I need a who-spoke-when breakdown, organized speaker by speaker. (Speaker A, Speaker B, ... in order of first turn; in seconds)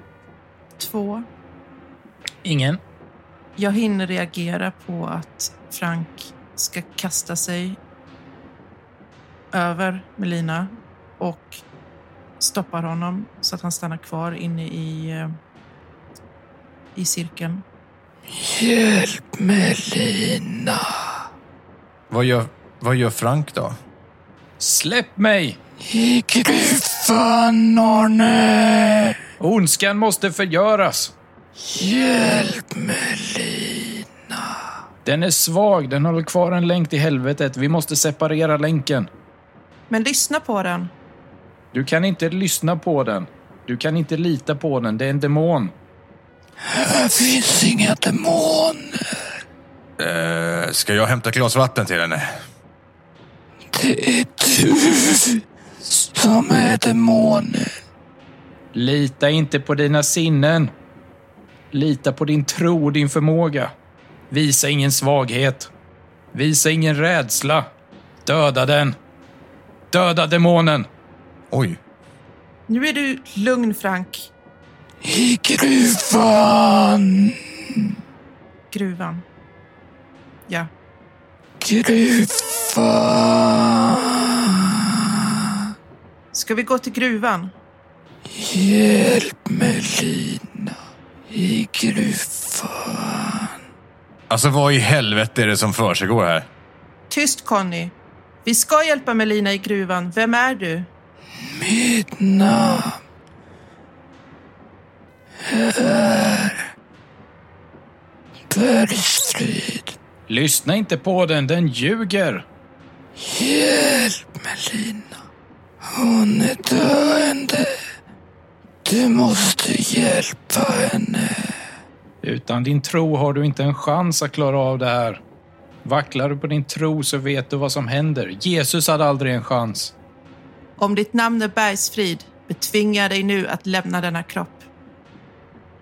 Speaker A: 0.8-1.2, 3.6-7.8, 9.5-11.6, 12.4-15.3, 16.9-17.6, 39.9-40.9, 72.7-74.3, 78.7-79.2, 86.3-87.5, 97.1-97.9, 98.4-100.9, 130.8-134.6
Speaker B: 2.4-2.8, 24.6-25.6, 29.4-31.1, 35.0-39.1, 41.7-45.7, 58.7-60.7, 61.7-63.7, 64.3-65.7, 66.3-67.7, 68.2-69.0, 69.9-70.9, 110.3-112.5, 122.2-125.2, 125.8-129.9
Speaker C: 18.3-21.1, 25.8-29.2, 31.6-34.5, 46.6-49.2, 53.7-57.8, 75.0-77.9, 81.6-85.6, 88.3-90.8, 91.3-93.5, 101.4-103.0, 105.4-106.6, 108.5-109.9, 113.2-115.2, 115.8-117.8, 118.8-121.5
Speaker D: 22.1-23.8, 50.0-52.4, 71.5-71.8, 94.3-96.5